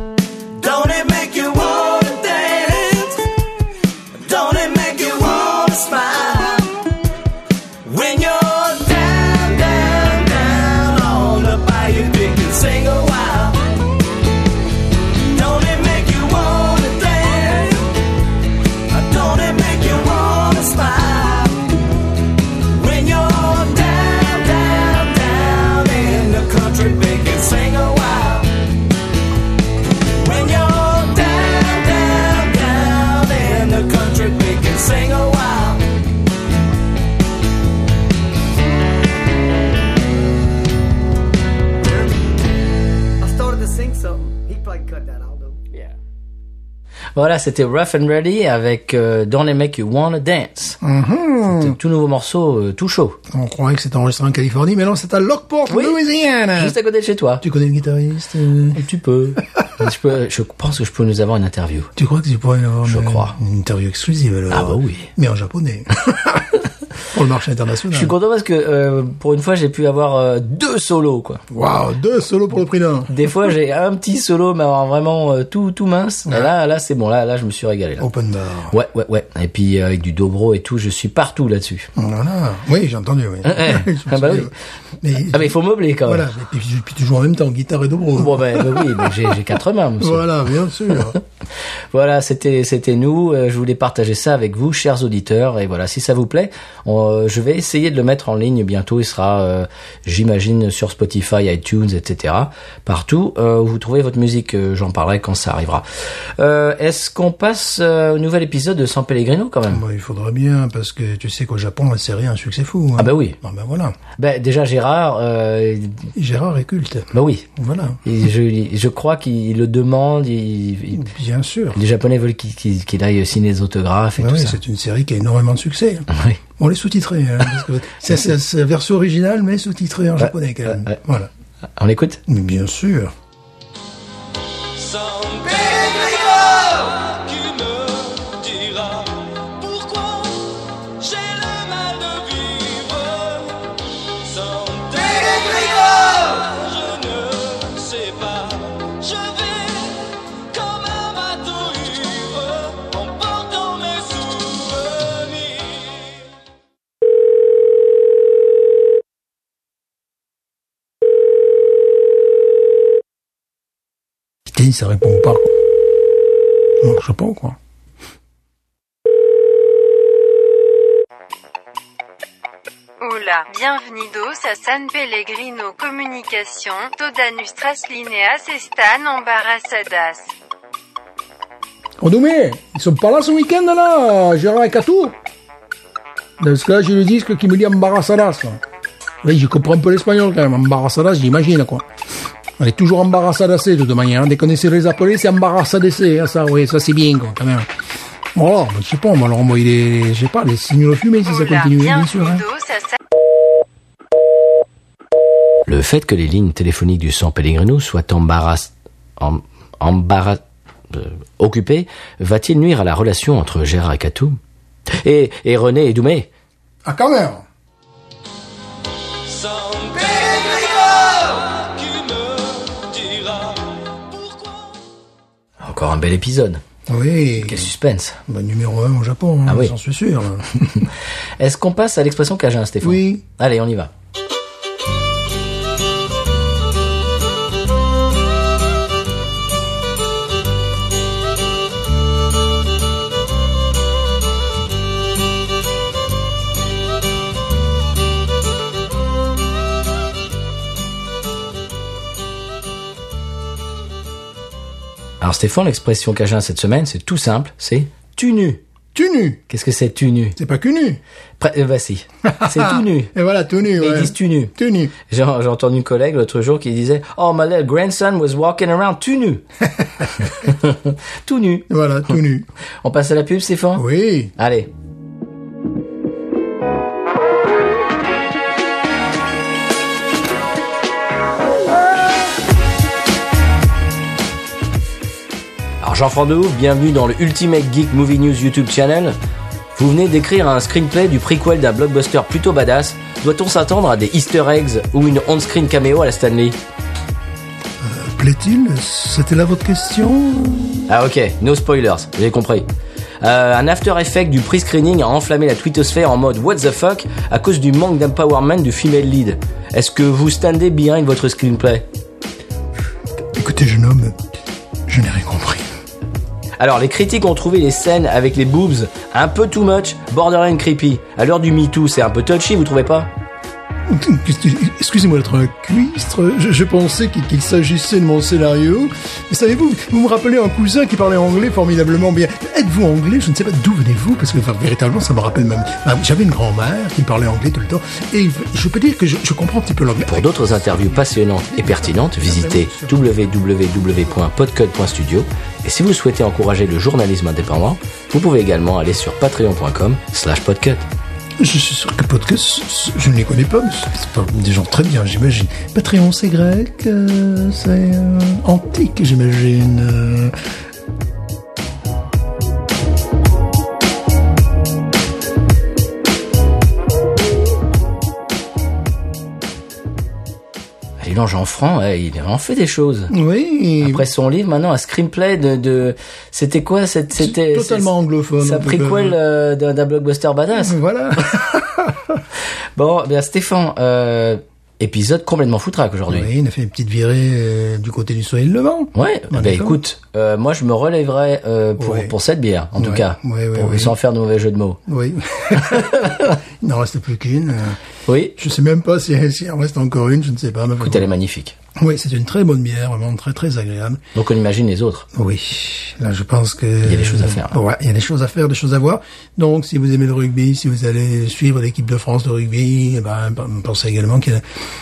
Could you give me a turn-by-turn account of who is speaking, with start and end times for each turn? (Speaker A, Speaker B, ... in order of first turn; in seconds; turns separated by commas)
Speaker A: 0.5-3.3, Speaker A: 4.1-6.7, Speaker A: 7.8-13.6, Speaker A: 15.3-17.9, Speaker A: 18.9-21.6, Speaker A: 22.6-28.5, Speaker A: 30.2-35.9, Speaker B: 43.2-45.5, Speaker C: 47.1-50.8, Speaker D: 50.8-51.8, Speaker C: 51.5-53.2, Speaker D: 53.3-56.8, Speaker C: 55.7-56.0, Speaker C: 56.6-57.4, Speaker D: 57.4-58.8, Speaker C: 58.7-61.9, Speaker D: 62.0-66.5, Speaker C: 62.8-63.4, Speaker C: 64.5-65.1, Speaker D: 67.1-68.1, Speaker C: 67.9-71.4, Speaker D: 71.5-73.1, Speaker C: 73.1-78.1, Speaker D: 78.0-78.7, Speaker C: 78.7-81.9, Speaker D: 82.0-89.1, Speaker C: 83.4-84.5, Speaker C: 85.3-86.3, Speaker C: 88.2-90.2, Speaker D: 90.0-91.2, Speaker C: 91.9-105.8, Speaker C: 106.4-109.8, Speaker D: 109.7-113.9, Speaker C: 113.0-113.4, Speaker C: 114.2-116.1, Speaker D: 116.2-118.0, Speaker C: 117.1-117.5, Speaker C: 118.0-121.0, Speaker D: 120.9-121.8, Speaker C: 121.7-124.6, Speaker D: 124.2-131.3, Speaker C: 126.1-126.4, Speaker C: 130.2-131.0, Speaker C: 131.8-132.2, Speaker D: 132.3-133.1, Speaker E: 134.8-140.3, Speaker E: 141.0-143.7, Speaker E: 144.2-155.8, Speaker D: 164.5-165.6, Speaker D: 166.8-167.6, Speaker F: 173.0-180.3, Speaker D: 182.0-185.1, Speaker D: 186.4-188.6, Speaker D: 189.2-191.8, Speaker D: 192.6-197.7, Speaker D: 198.3-202.4, Speaker F: 201.2-203.0, Speaker C: 205.7-214.4, Speaker C: 215.0-216.3, Speaker D: 216.8-217.4, Speaker E: 219.3-224.3, Speaker C: 225.6-226.6, Speaker D: 226.9-227.7, Speaker C: 227.3-228.2, Speaker D: 228.3-230.9, Speaker C: 229.5-229.7, Speaker C: 231.4-233.9, Speaker D: 232.8-233.2, Speaker C: 255.2-258.6, Speaker D: 258.9-259.4, Speaker C: 259.5-260.4, Speaker D: 260.4-261.0, Speaker C: 261.4-263.1, Speaker D: 262.3-264.9, Speaker C: 263.8-269.4, Speaker D: 269.8-270.1, Speaker C: 270.2-271.7, Speaker D: 271.7-272.5, Speaker C: 272.8-274.7, Speaker D: 273.8-274.3, Speaker C: 285.8-289.2, Speaker C: 289.7-296.6, Speaker D: 297.8-300.8, Speaker C: 300.9-302.7, Speaker C: 303.2-311.9, Speaker D: 313.3-314.2, Speaker D: 314.9-315.7, Speaker C: 316.6-323.1, Speaker D: 323.9-343.1, Speaker C: 340.1-350.9, Speaker D: 351.4-360.3, Speaker C: 371.0-373.1, Speaker D: 373.1-374.1, Speaker C: 373.8-380.8, Speaker D: 377.1-379.2, Speaker D: 380.6-382.2, Speaker C: 382.8-386.3, Speaker D: 386.1-389.8, Speaker C: 388.9-394.8, Speaker D: 391.8-392.1, Speaker D: 392.8-393.9, Speaker D: 394.9-397.8, Speaker C: 395.5-396.4, Speaker C: 398.1-398.4, Speaker D: 398.4-401.1, Speaker C: 400.8-401.6, Speaker D: 401.8-404.0, Speaker C: 404.1-405.1, Speaker D: 405.1-414.4, Speaker C: 406.8-407.6